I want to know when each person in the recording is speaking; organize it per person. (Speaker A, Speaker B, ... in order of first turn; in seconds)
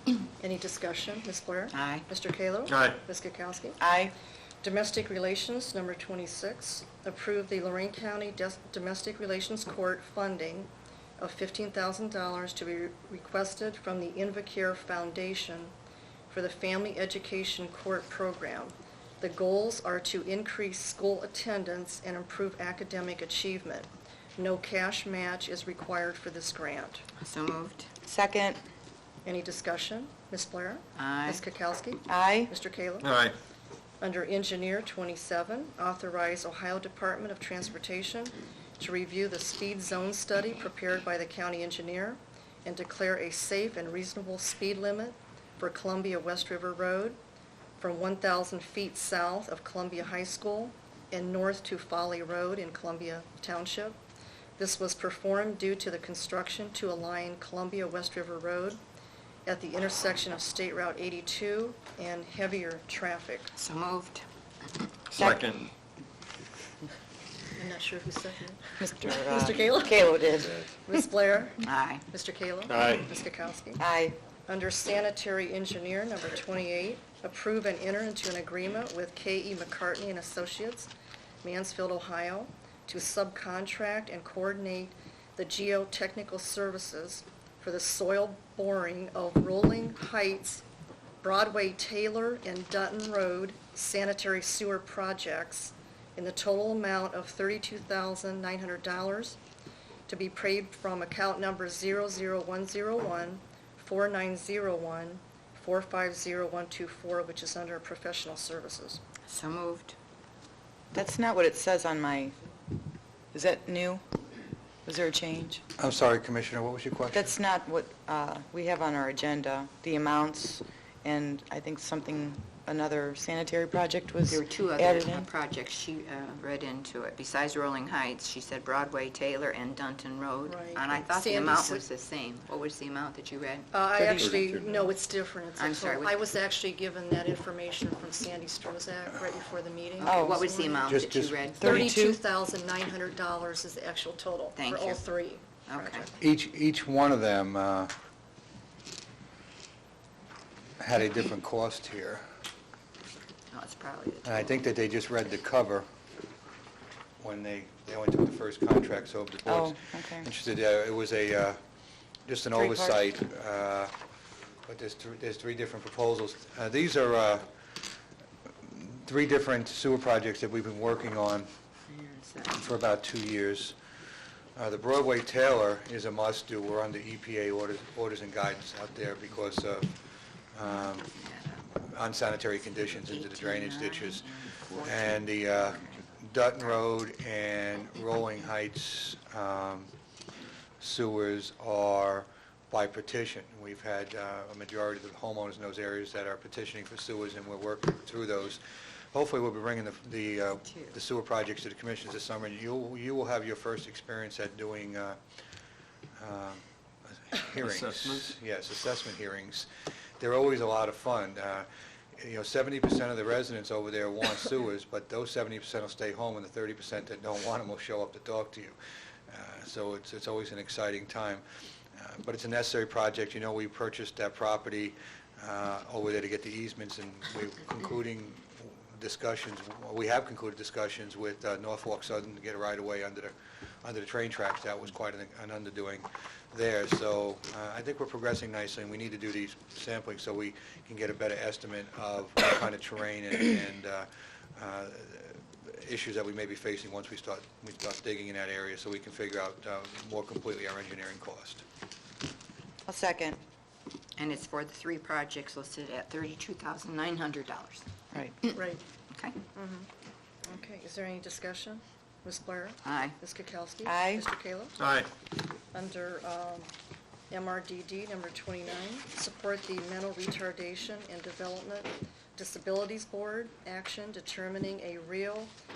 Speaker A: 0.4-3.8, 4.6-15.7, 16.3-27.1, 29.2-33.1, 34.0-47.2, 47.8-54.0, 54.6-58.8, 59.5-63.5, 67.5-73.8, 74.5-80.9, 81.4-90.7, 91.2-99.4, 100.1-109.0, 130.5-131.8, 133.7-140.9, 141.6-146.1, 258.5-258.8, 259.5-259.9, 260.4-264.8, 265.7-266.7, 267.3-275.5
Speaker B: 1.7-2.1, 27.2-27.9, 31.0-31.4, 63.6-64.2, 71.6-72.0, 109.3-110.0, 124.3-133.7, 135.6-136.2, 140.0-141.9, 144.6-145.0, 145.7-146.1, 153.5-154.3, 171.9-172.7, 180.7-181.7, 182.9-186.1, 254.2-257.9, 262.9-263.2
Speaker C: 2.7-3.0, 33.0-33.4, 65.1-65.7, 72.7-73.1, 134.2-134.9, 207.6-208.3, 264.8-265.1
Speaker D: 3.8-4.1, 28.1-28.6, 32.1-32.5, 65.2-65.5, 68.8-70.7, 73.8-74.2, 110.9-112.3, 113.3-114.0, 114.8-115.6, 117.1-125.3, 134.0-134.4, 140.0-140.4, 141.6-142.2, 159.5-160.3, 162.6-163.0, 252.9-253.4, 263.9-264.2
Speaker E: 115.8-117.3, 140.9-141.4, 146.2-147.9, 150.8-152.2, 154.2-155.9, 157.2-161.6, 162.3-163.9, 164.7-167.5, 168.6-171.5, 172.5-173.8, 174.6-179.9, 180.5-181.1, 181.8-189.9, 190.8-205.2, 206.2-209.7, 210.2-218.8, 219.3-221.4, 221.9-251.6